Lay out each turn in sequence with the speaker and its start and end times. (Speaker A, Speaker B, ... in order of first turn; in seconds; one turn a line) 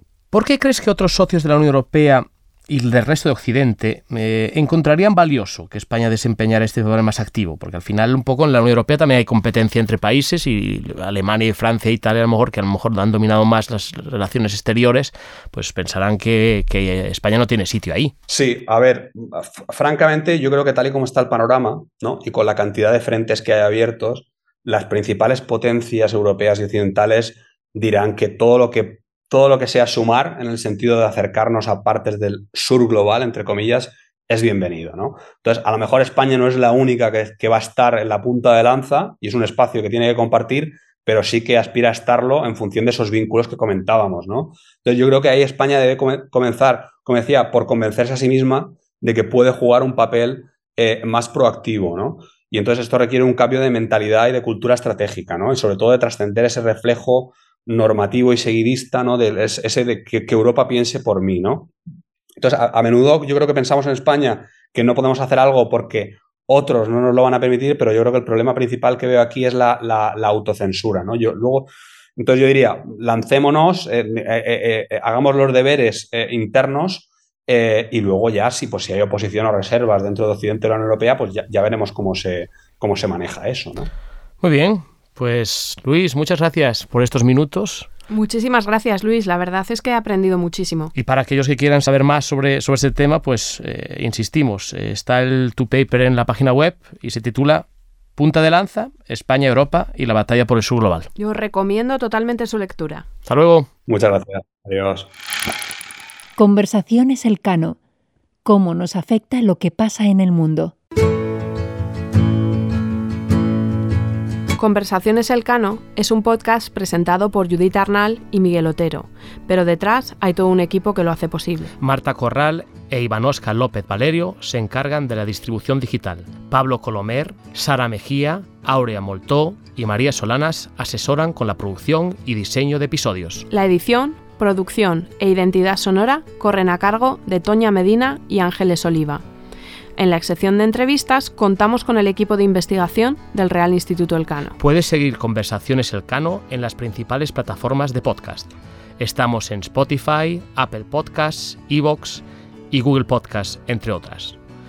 Speaker A: 0.3-18.1
Speaker B: 18.3-61.7
Speaker B: 62.4-83.9
Speaker A: 84.4-87.9
Speaker C: 88.1-90.9
Speaker A: 90.9-97.6
Speaker A: 98.2-101.1
Speaker C: 101.2-103.0
Speaker A: 103.2-103.7
Speaker B: 103.9-105.1
Speaker D: 106.3-107.8
Speaker D: 108.4-110.7
Speaker C: 114.5-121.7
Speaker A: 121.8-133.5
Speaker C: 133.5-139.2
Speaker C: 140.0-144.6
Speaker A: 144.6-154.4